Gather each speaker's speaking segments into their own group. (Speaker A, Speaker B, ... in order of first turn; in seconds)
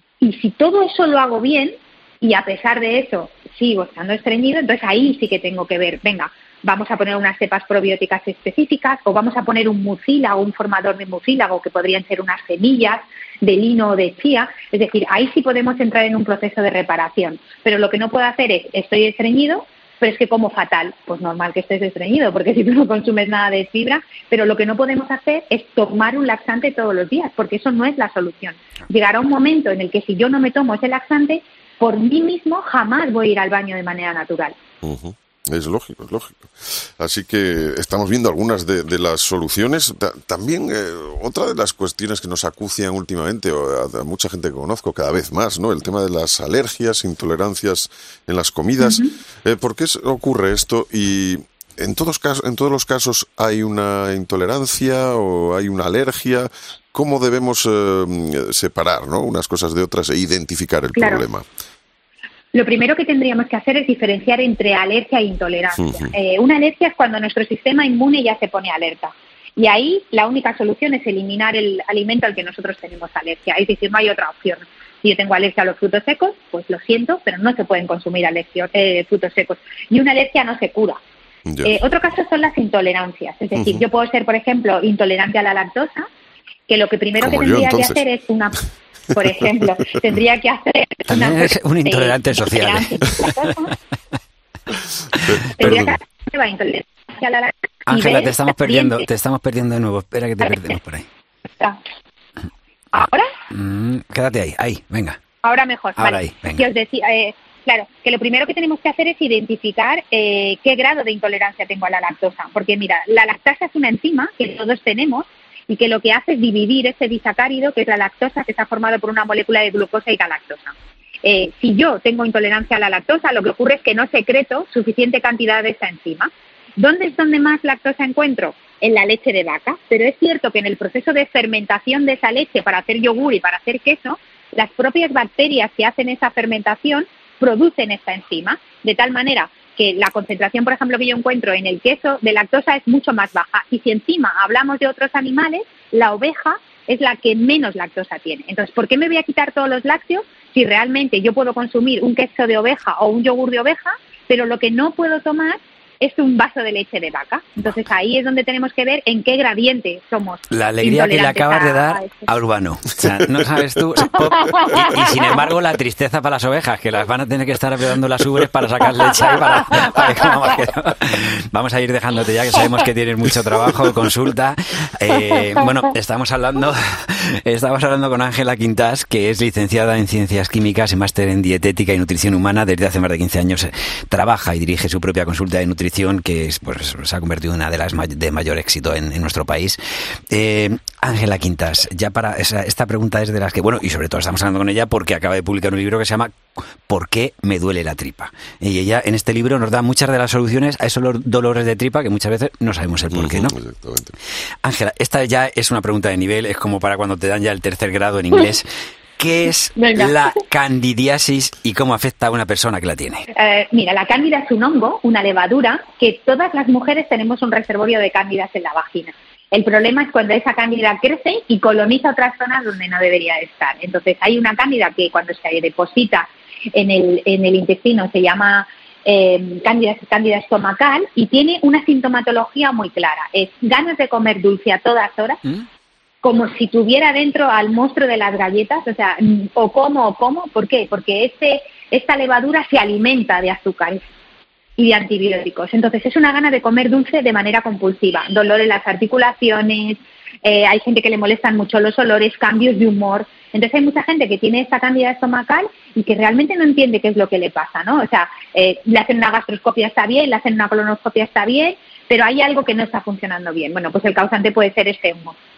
Speaker A: 0.2-34.5, 48.8-49.1, 61.0-61.2, 62.5-81.0, 81.6-86.1, 86.7-88.6, 89.1-93.7, 95.6-99.0, 102.9-103.3, 105.4-162.3, 209.8-210.4, 213.3-235.4, 236.2-244.0, 244.8-265.4
Speaker B: 34.8-61.5, 65.8-66.1, 81.5-81.7, 87.2-88.0, 203.1-204.1
Speaker C: 91.1-93.2, 95.3-95.9, 97.9-101.1, 103.5-105.2, 106.0-106.6, 160.5-203.5, 204.6-213.2